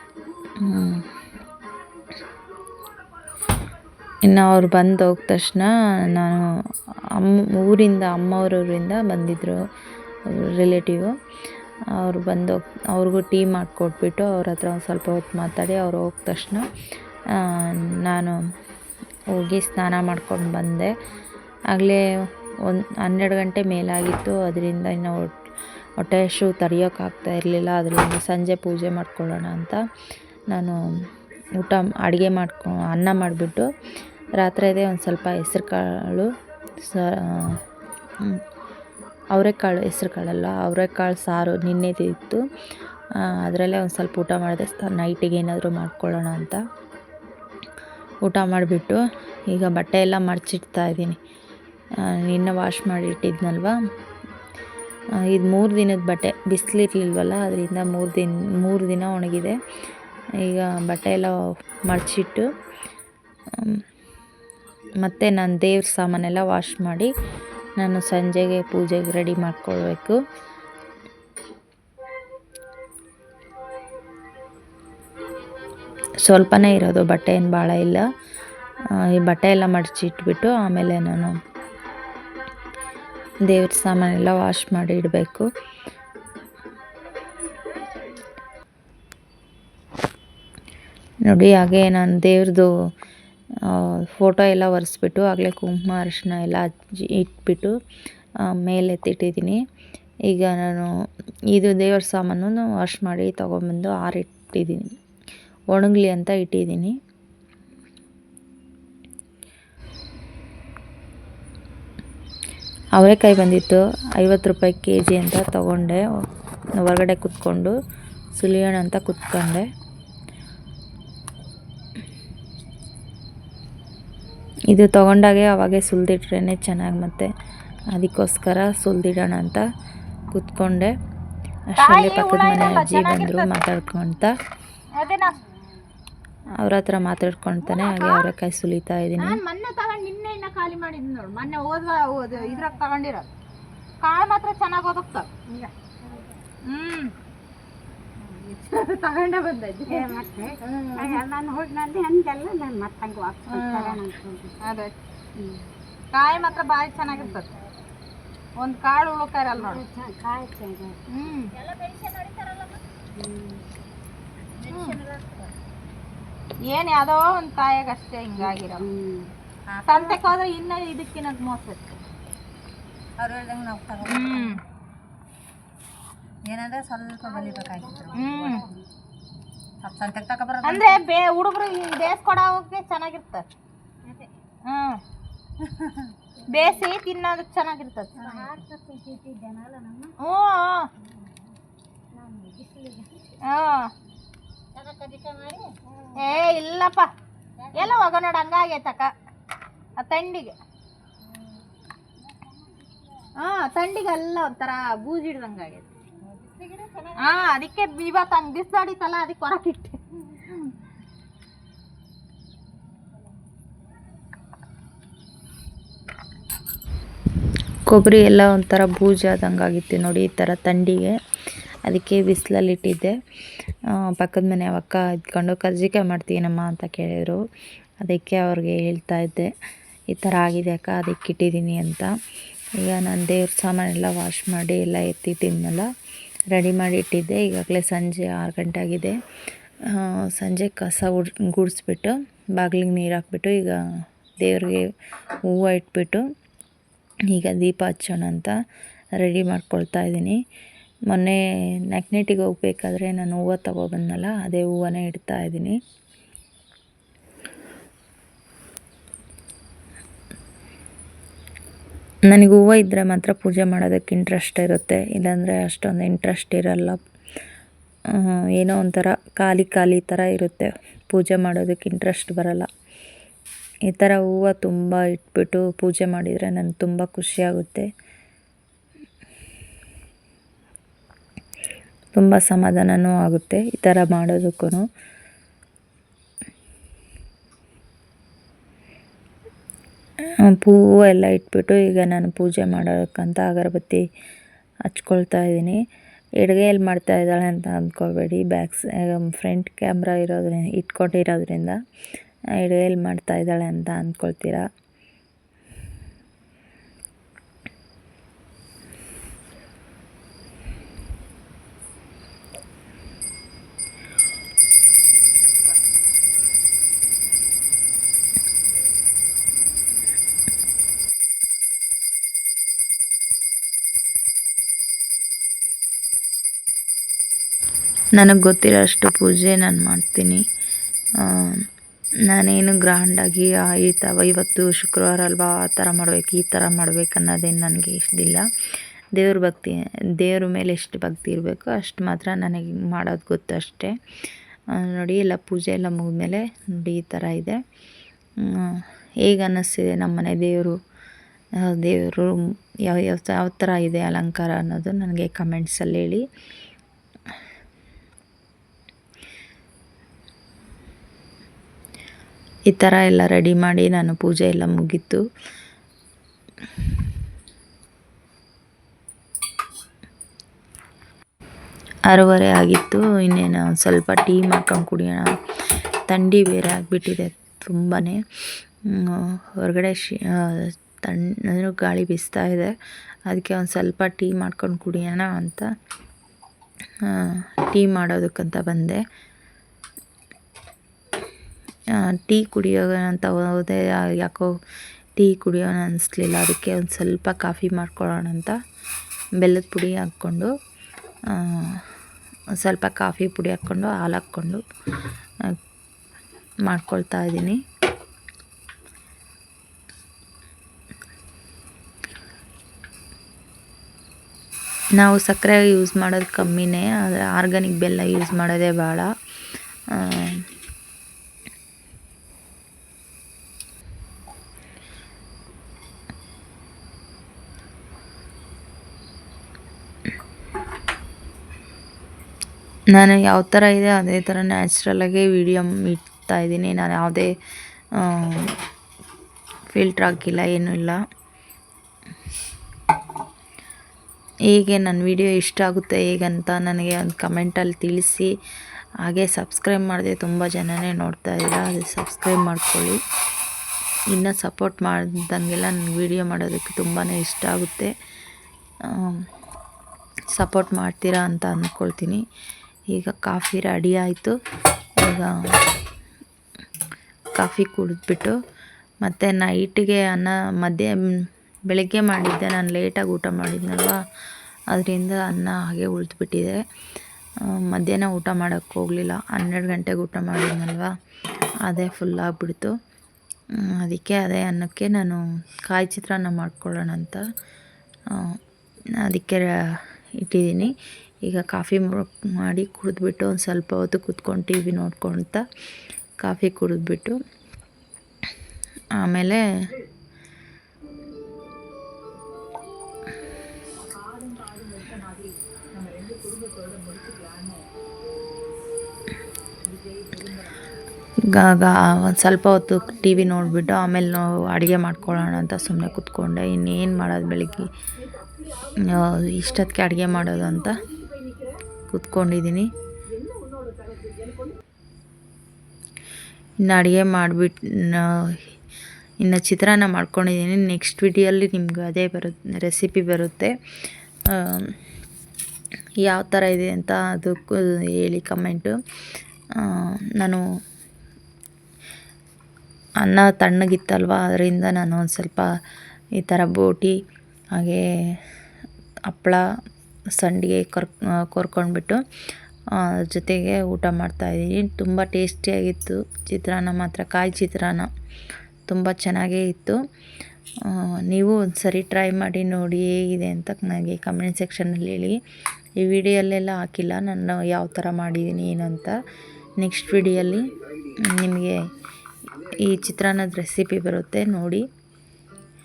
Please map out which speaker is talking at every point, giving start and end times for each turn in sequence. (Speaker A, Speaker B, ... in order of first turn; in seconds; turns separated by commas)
Speaker A: 0.6-1.1, Speaker A: 4.2-6.5, Speaker A: 7.1-9.6, Speaker A: 10.3-11.1, Speaker A: 11.9-16.6, Speaker A: 17.3-18.4, Speaker A: 19.3-20.9, Speaker A: 21.7-22.0, Speaker A: 22.6-25.3, Speaker A: 26.0-29.8, Speaker A: 30.5-30.8, Speaker A: 31.6-33.7, Speaker A: 34.4-36.3, Speaker A: 36.8-37.6, Speaker A: 39.3-42.4, Speaker A: 43.2-46.6, Speaker A: 48.2-51.2, Speaker A: 52.0-53.8, Speaker A: 55.2-59.6, Speaker A: 60.4-61.4, Speaker A: 61.9-62.5, Speaker A: 63.5-63.8, Speaker A: 65.0-67.1, Speaker A: 67.8-70.2, Speaker A: 76.2-78.0, Speaker A: 78.9-81.4, Speaker A: 83.4-85.5, Speaker A: 91.2-92.7, Speaker A: 93.6-97.7, Speaker A: 98.4-99.6, Speaker A: 100.3-104.9, Speaker A: 105.7-106.9, Speaker A: 112.9-116.1, Speaker A: 116.8-117.7, Speaker A: 118.4-119.6, Speaker A: 124.7-127.3, Speaker A: 127.9-129.6, Speaker A: 130.3-130.9, Speaker A: 131.7-134.3, Speaker B: 131.8-133.5, Speaker B: 134.9-135.4, Speaker C: 135.0-135.6, Speaker A: 136.5-139.4, Speaker B: 137.7-138.3, Speaker B: 139.2-143.3, Speaker C: 142.4-142.8, Speaker B: 144.0-145.7, Speaker B: 146.6-147.1, Speaker B: 148.2-151.2, Speaker C: 149.9-154.6, Speaker B: 153.5-154.0, Speaker B: 154.6-154.9, Speaker C: 155.3-155.7, Speaker B: 156.1-157.5, Speaker C: 157.0-157.4, Speaker B: 158.6-159.8, Speaker C: 159.6-161.0, Speaker B: 161.1-161.5, Speaker C: 161.5-163.6, Speaker C: 164.6-165.5, Speaker B: 164.7-165.0, Speaker B: 166.6-168.8, Speaker C: 168.4-170.3, Speaker B: 169.9-171.8, Speaker C: 173.2-174.6, Speaker B: 174.1-174.6, Speaker C: 176.5-178.8, Speaker B: 178.1-178.6, Speaker C: 179.8-181.0, Speaker B: 180.6-183.4, Speaker B: 184.6-185.0, Speaker C: 185.6-186.8, Speaker B: 186.5-188.5, Speaker C: 188.2-190.1, Speaker B: 190.2-190.9, Speaker C: 192.1-193.2, Speaker B: 193.4-193.9, Speaker C: 194.8-196.4, Speaker B: 196.2-197.1, Speaker C: 197.6-198.0, Speaker B: 197.7-199.1, Speaker B: 200.0-200.5, Speaker B: 203.3-205.9, Speaker C: 206.3-207.3, Speaker B: 207.2-210.7, Speaker A: 217.9-221.2, Speaker A: 221.8-223.2, Speaker A: 223.9-227.4, Speaker A: 228.0-229.5, Speaker A: 230.1-232.1, Speaker A: 232.8-235.9, Speaker A: 236.5-239.2, Speaker A: 239.8-243.8, Speaker A: 244.4-244.9, Speaker A: 245.4-246.2, Speaker A: 247.3-248.6, Speaker A: 249.2-250.4, Speaker A: 251.1-255.8, Speaker A: 262.3-267.0, Speaker A: 268.1-272.7, Speaker A: 273.9-277.9, Speaker A: 282.1-284.8, Speaker A: 290.4-294.0, Speaker A: 294.8-295.8, Speaker A: 296.4-301.8, Speaker A: 302.6-304.7, Speaker A: 328.1-330.4, Speaker A: 331.2-331.6, Speaker A: 332.3-338.4, Speaker A: 339.1-343.9, Speaker A: 344.7-347.6, Speaker A: 348.4-350.8, Speaker A: 351.6-356.2, Speaker A: 362.7-365.2, Speaker A: 372.1-375.3, Speaker A: 376.1-378.2, Speaker A: 378.9-382.7, Speaker A: 383.3-385.7, Speaker A: 387.0-389.0, Speaker A: 391.9-394.5, Speaker A: 395.2-398.6, Speaker A: 399.4-400.5, Speaker A: 401.3-401.9, Speaker A: 402.6-404.6, Speaker A: 406.6-407.6, Speaker A: 415.0-419.1, Speaker A: 419.9-420.4, Speaker A: 432.9-437.3, Speaker A: 438.0-438.6, Speaker A: 439.7-441.0, Speaker A: 444.5-448.3, Speaker A: 449.0-453.0, Speaker A: 454.1-457.9, Speaker A: 458.8-459.2, Speaker A: 460.3-462.2, Speaker A: 462.9-464.3, Speaker A: 465.0-465.5, Speaker A: 467.4-468.4, Speaker A: 469.0-471.0, Speaker A: 471.7-474.0, Speaker A: 474.7-476.6, Speaker A: 477.4-480.9, Speaker A: 481.6-482.7, Speaker A: 483.6-487.2, Speaker A: 488.1-488.4, Speaker A: 489.0-490.7, Speaker A: 491.2-495.4, Speaker A: 496.2-497.2, Speaker A: 498.9-499.4, Speaker A: 511.2-517.7, Speaker A: 518.8-520.8, Speaker A: 521.9-522.7, Speaker A: 526.6-528.4, Speaker A: 529.2-533.5, Speaker A: 534.3-534.8, Speaker A: 536.0-538.8, Speaker A: 539.5-540.4, Speaker A: 543.0-545.5, Speaker A: 546.2-547.0, Speaker A: 547.5-547.8, Speaker A: 549.1-549.4, Speaker A: 550.2-552.0, Speaker A: 552.8-557.9, Speaker A: 558.7-559.8, Speaker A: 560.6-565.2, Speaker A: 565.8-569.0, Speaker A: 569.6-571.6, Speaker A: 572.5-574.6